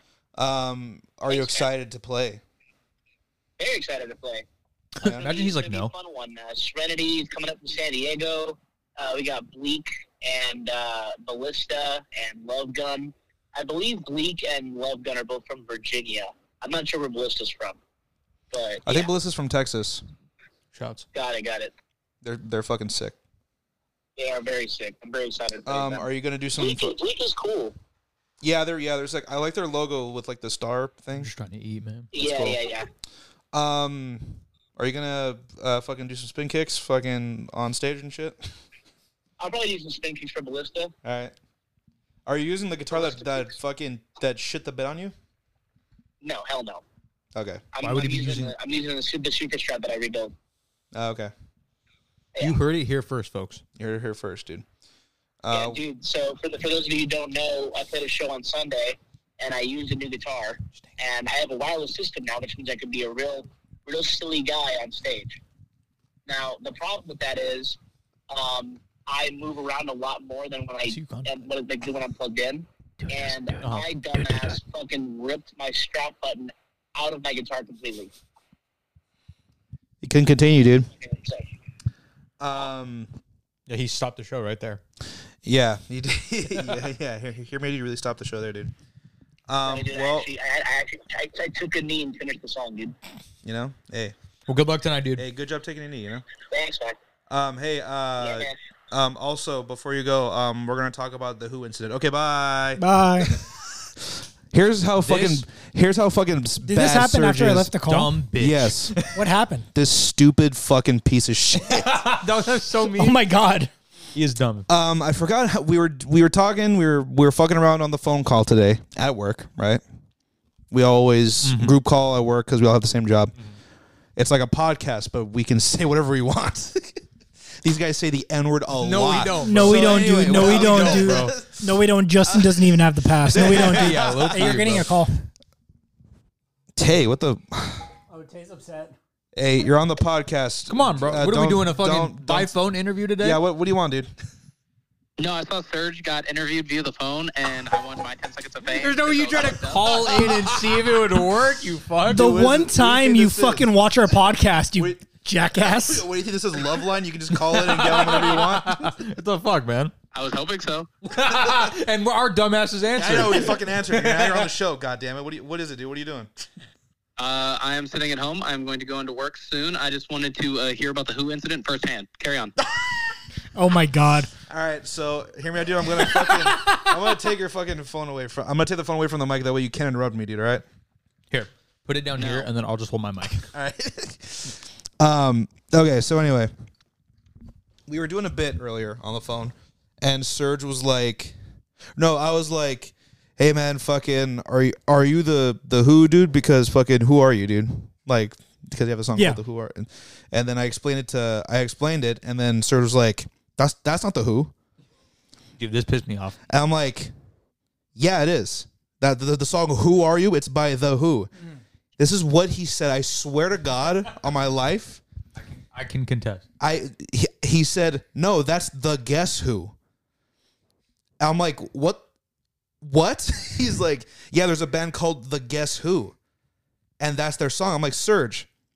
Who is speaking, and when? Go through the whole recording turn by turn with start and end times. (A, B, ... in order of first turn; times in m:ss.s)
0:00.4-0:02.4 A
0:01.3-0:01.6 B
0:03.6-0:04.4 B
0:05.0-0:05.9 C
0:05.0-0:17.8 B
0:18.5-0:19.1 B
0:18.8-0:20.0 A
0:20.7-0:21.0 C
0:21.1-0:21.7 B
0:22.2-0:23.1 A
0:24.2-0:26.0 B
0:25.6-0:27.0 A
0:26.6-0:27.8 B
0:28.4-0:31.3 A
0:31.1-0:32.1 C
0:32.1-0:32.9 B
0:32.1-0:32.6 A
0:33.5-0:38.4 A
0:39.4-0:40.9 B
0:41.0-0:41.3 A
0:42.2-0:45.1 A
0:42.9-0:43.5 B
0:46.2-0:46.8 B
0:47.3-0:47.6 A
0:47.7-0:50.3 B
0:47.8-0:48.6 C
0:50.9-0:51.3 A
0:52.4-0:53.6 C
0:53.8-0:54.6 A
0:55.4-0:55.8 A
0:55.5-1:05.4 B
1:06.3-1:07.8 B
1:08.3-1:18.1 B
1:10.8-1:11.5 C
1:13.6-1:14.6 C
1:20.0-1:20.9 A
1:21.0-1:21.5 B
1:22.4-1:23.1 A
1:23.7-1:24.8 C
1:25.4-1:28.7 A
1:29.5-1:30.3 A
1:29.6-1:32.9 B
1:33.4-1:34.1 A
1:34.5-1:35.2 C
1:35.2-1:36.2 A
1:36.5-1:37.0 B
1:37.3-1:47.7 A
1:38.2-1:38.6 B
1:42.8-1:43.4 D
1:45.0-1:45.4 C
1:46.6-1:48.2 D
1:47.9-1:49.2 C
1:48.4-1:49.0 A
1:49.1-1:49.7 D
1:49.7-1:51.9 A
1:51.6-1:53.2 C
1:52.9-1:53.7 D
1:54.1-1:54.7 C
1:54.7-1:59.8 A
2:00.7-2:03.3 A
2:01.4-2:01.8 C
2:04.2-2:07.0 A
2:07.6-2:14.8 A
2:08.8-2:11.3 C
2:09.4-2:15.2 D
2:13.4-2:14.9 C
2:16.7-2:17.9 A
2:18.1-2:19.0 D
2:19.3-2:22.5 A
2:20.7-2:23.4 C
2:23.2-2:24.1 A
2:25.2-2:30.2 E
2:28.6-2:32.3 C
2:32.0-2:36.1 D
2:32.1-2:33.8 A
2:34.8-2:38.9 A
2:37.3-2:39.9 C
2:40.1-2:40.9 E
2:41.0-2:44.5 C
2:43.0-2:46.3 A
2:47.2-2:52.5 E
2:53.5-2:54.3 D
2:54.5-3:00.6 A
2:56.4-2:56.8 C
3:01.3-3:03.5 C
3:02.2-3:02.5 E
3:03.5-3:06.5 A
3:07.9-3:11.4 A
3:12.0-3:24.5 A
3:19.1-3:19.4 D
3:25.6-3:26.4 C
3:26.5-3:27.1 A
3:27.9-3:31.3 A
3:32.0-3:35.0 A
3:35.4-3:36.4 C
3:36.6-3:39.7 A
3:41.2-3:42.0 A
3:42.8-3:46.1 A
3:47.0-3:48.5 A